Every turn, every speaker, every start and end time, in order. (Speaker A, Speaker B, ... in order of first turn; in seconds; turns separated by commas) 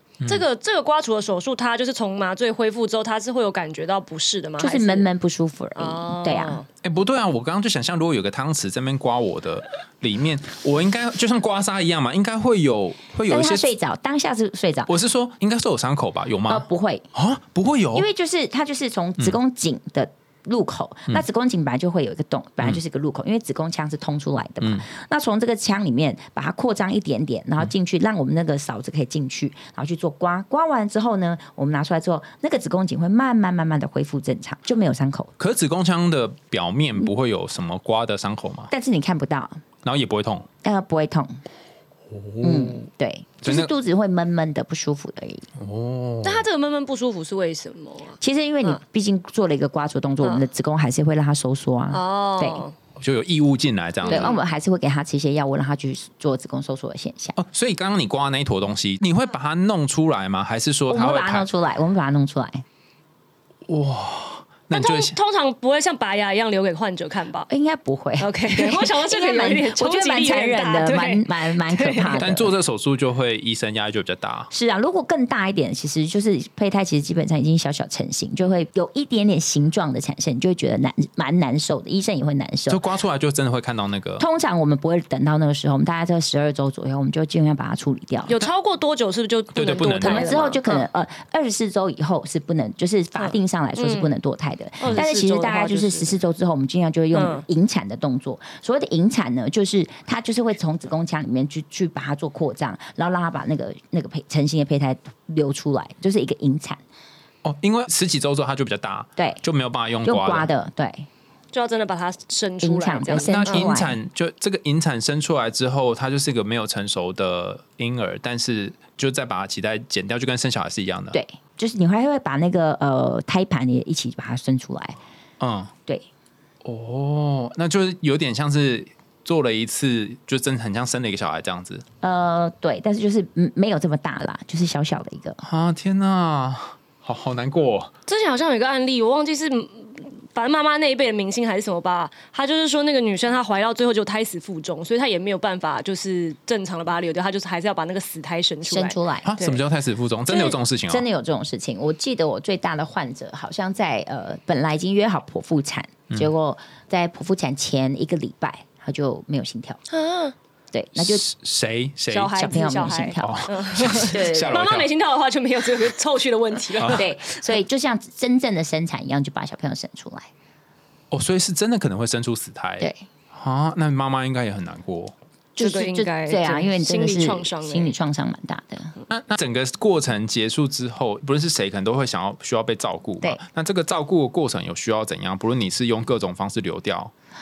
Speaker A: 0.2-5.1, Speaker B: 4.6-6.6, Speaker A: 5.8-6.7, Speaker C: 6.8-13.7, Speaker B: 13.3-14.9, Speaker C: 14.9-18.1, Speaker B: 16.5-17.0, Speaker B: 17.9-35.3, Speaker C: 35.4-38.7, Speaker B: 38.7-39.6, Speaker C: 39.8-40.5, Speaker B: 40.6-41.4, Speaker C: 42.1-42.8, Speaker B: 42.4-45.5, Speaker C: 43.4-43.7, Speaker C: 45.6-46.4, Speaker A: 46.2-48.8, Speaker B: 48.2-52.6, Speaker A: 50.2-50.5, Speaker A: 51.9-52.7, Speaker C: 53.0-54.4, Speaker A: 54.0-54.4, Speaker B: 54.1-57.4, Speaker C: 57.4-61.5, Speaker B: 60.9-62.6, Speaker C: 63.7-65.1, Speaker A: 64.7-67.5, Speaker B: 67.5-72.5, Speaker A: 68.2-72.1, Speaker C: 72.1-74.5, Speaker B: 74.5-82.8, Speaker C: 82.7-84.2, Speaker B: 84.2-88.3, Speaker A: 88.3-90.8, Speaker C: 89.5-90.3, Speaker B: 90.0-106.8, Speaker A: 93.2-94.1, Speaker A: 94.8-96.1, Speaker A: 97.1-97.4, Speaker C: 107.4-110.5, Speaker B: 109.2-109.4, Speaker B: 110.0-111.1, Speaker A: 111.5-113.7, Speaker B: 112.6-114.0, Speaker C: 113.1-121.2, Speaker B: 121.1-125.0, Speaker C: 125.4-125.7, Speaker C: 126.6-131.8, Speaker B: 132.0-135.4, Speaker C: 135.4-137.9, Speaker A: 138.1-149.5, Speaker B: 148.7-149.5, Speaker C: 149.2-151.1, Speaker B: 150.9-159.8, Speaker A: 159.9-160.3, Speaker B: 160.7-161.2, Speaker C: 161.0-162.3, Speaker A: 162.1-167.4, Speaker B: 162.3-163.4, Speaker C: 163.2-164.9, Speaker B: 164.0-164.6, Speaker C: 166.8-167.0, Speaker B: 166.9-170.3, Speaker C: 171.1-175.1, Speaker B: 172.8-173.0, Speaker B: 175.6-178.9, Speaker A: 175.6-177.9, Speaker C: 179.1-187.1